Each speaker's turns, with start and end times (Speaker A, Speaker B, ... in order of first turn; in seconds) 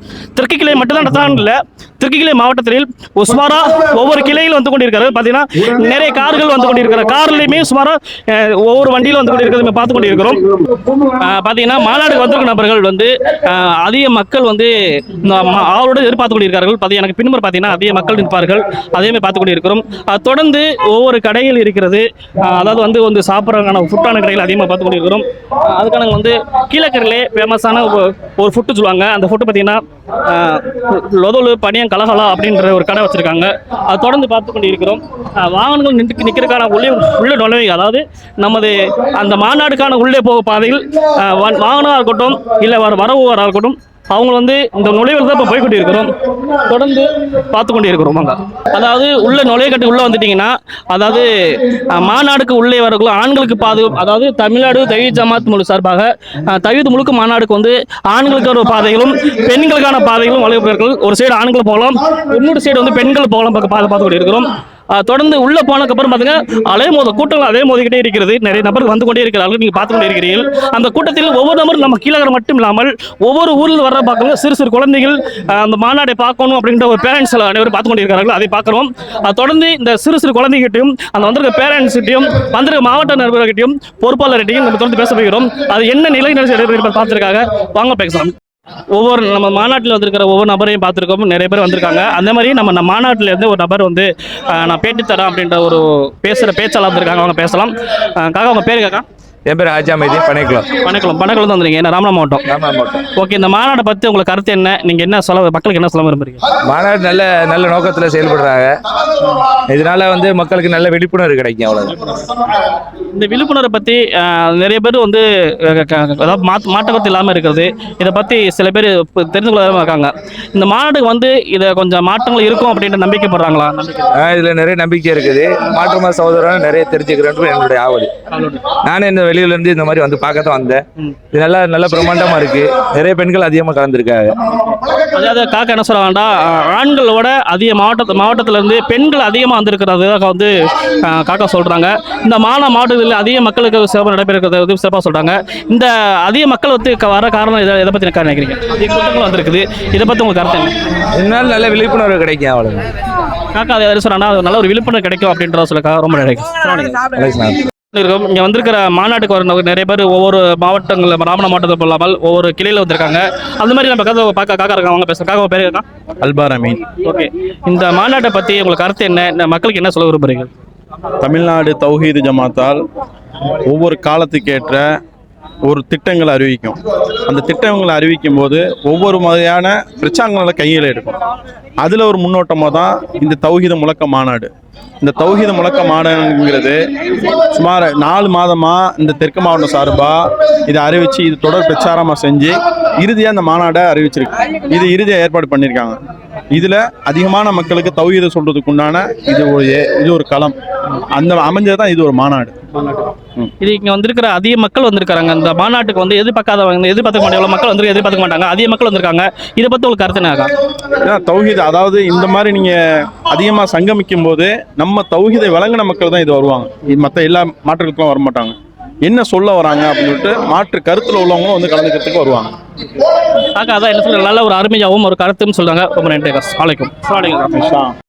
Speaker A: 0.3-88.3, 88.9-99.0, 100.8-102.4, 103.1-106.4, 112.0-112.3, 113.1-124.2, 128.3-128.8, 135.1-150.7, 153.5-157.1, 157.9-165.8, 167.0-170.5, 202.8-210.5, 223.5-227.7
Speaker B: 99.5-100.7, 102.4-103.0, 106.6-111.9, 124.1-128.1, 128.8-134.4, 151.1-152.9, 157.1-157.6
Speaker C: 166.2-166.9, 171.2-172.8, 173.6-174.9, 175.6-181.2, 181.8-184.5, 185.0-186.8, 187.4-196.0, 196.5-200.6, 201.1-202.6, 211.0-222.5, 227.7-227.9